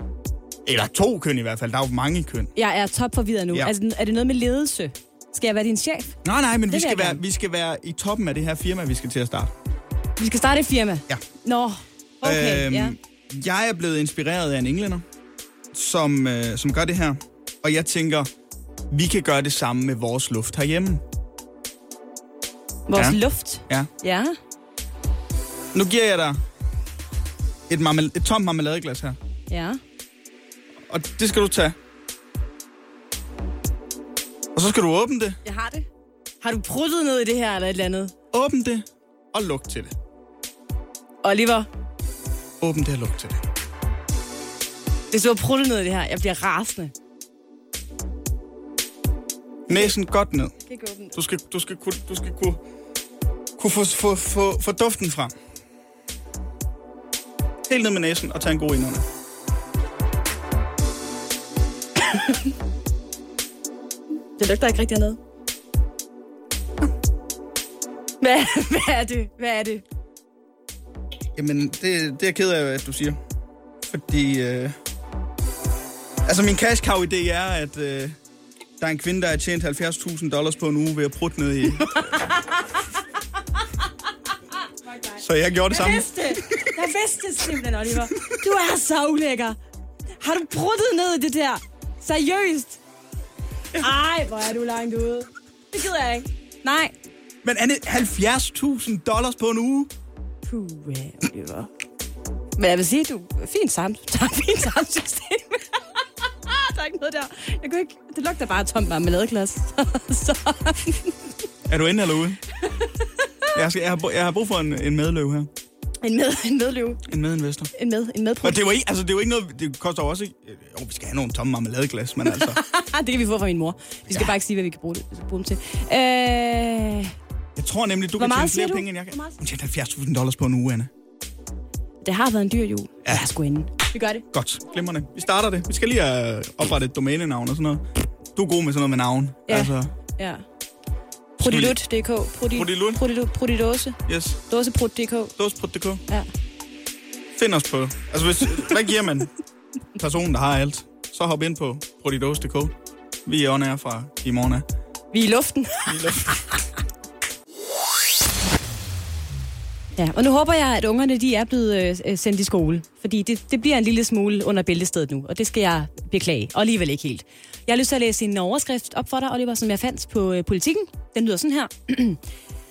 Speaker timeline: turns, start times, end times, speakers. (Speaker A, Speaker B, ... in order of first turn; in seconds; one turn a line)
Speaker A: 0.7-2.5
Speaker B: 2.6-6.2
Speaker A: 6.2-9.5
Speaker B: 6.7-7.2
Speaker B: 10.2-12.9
Speaker A: 12.2-15.0
Speaker A: 15.7-18.3
Speaker A: 18.9-21.0
Speaker B: 22.9-24.4
Speaker A: 22.9-23.9
Speaker A: 25.7-26.4
Speaker A: 27.7-29.2
Speaker B: 29.5-29.8
Speaker A: 30.9-31.8
Speaker A: 34.5-35.4
Speaker B: 35.5-35.9
Speaker B: 36.4-38.1
Speaker A: 38.3-39.9
Speaker B: 41.2-41.7
Speaker A: 42.6-43.4
Speaker B: 45.1-46.9
Speaker A: 49.7-50.5
Speaker B: 50.7-51.2
Speaker A: 51.1-52.6
Speaker A: 53.6-55.3
Speaker A: 57.7-59.0
Speaker B: 64.4-65.2
Speaker B: 68.2-69.8
Speaker A: 71.4-73.2
Speaker A: 73.9-74.8
Speaker A: 76.2-78.2
Speaker A: 78.8-82.0
Speaker B: 82.0-82.6
Speaker B: 84.9-89.6
Speaker A: 85.2-86.7
Speaker B: 90.2-92.8
Speaker B: 93.8-96.9
Speaker A: 97.4-99.9
Speaker B: 100.5-101.7
Speaker B: 102.6-105.8
Speaker B: 106.5-111.1
Speaker A: 111.7-112.4
Speaker A: 113.5-115.5
Speaker B: 116.0-117.0
Speaker A: 117.1-117.7
Speaker B: 117.8-118.6
Speaker A: 118.4-122.6
Speaker B: 122.3-127.1
Speaker A: 127.6-130.9
Speaker B: 128.2-129.3
Speaker B: 132.0-134.2
Speaker A: 134.3-137.8
Speaker A: 138.3-139.9
Speaker B: 139.5-140.4
Speaker B: 141.4-144.0
Speaker A: 141.4-141.8
Speaker A: 142.6-143.0
Speaker A: 144.1-144.4
Speaker B: 144.5-145.3
Speaker A: 145.4-146.0
Speaker A: 147.4-149.3
Speaker A: 150.0-152.7
Speaker A: 153.3-154.7
Speaker B: 155.1-156.4
Speaker A: 155.9-156.3
Speaker B: 160.0-172.2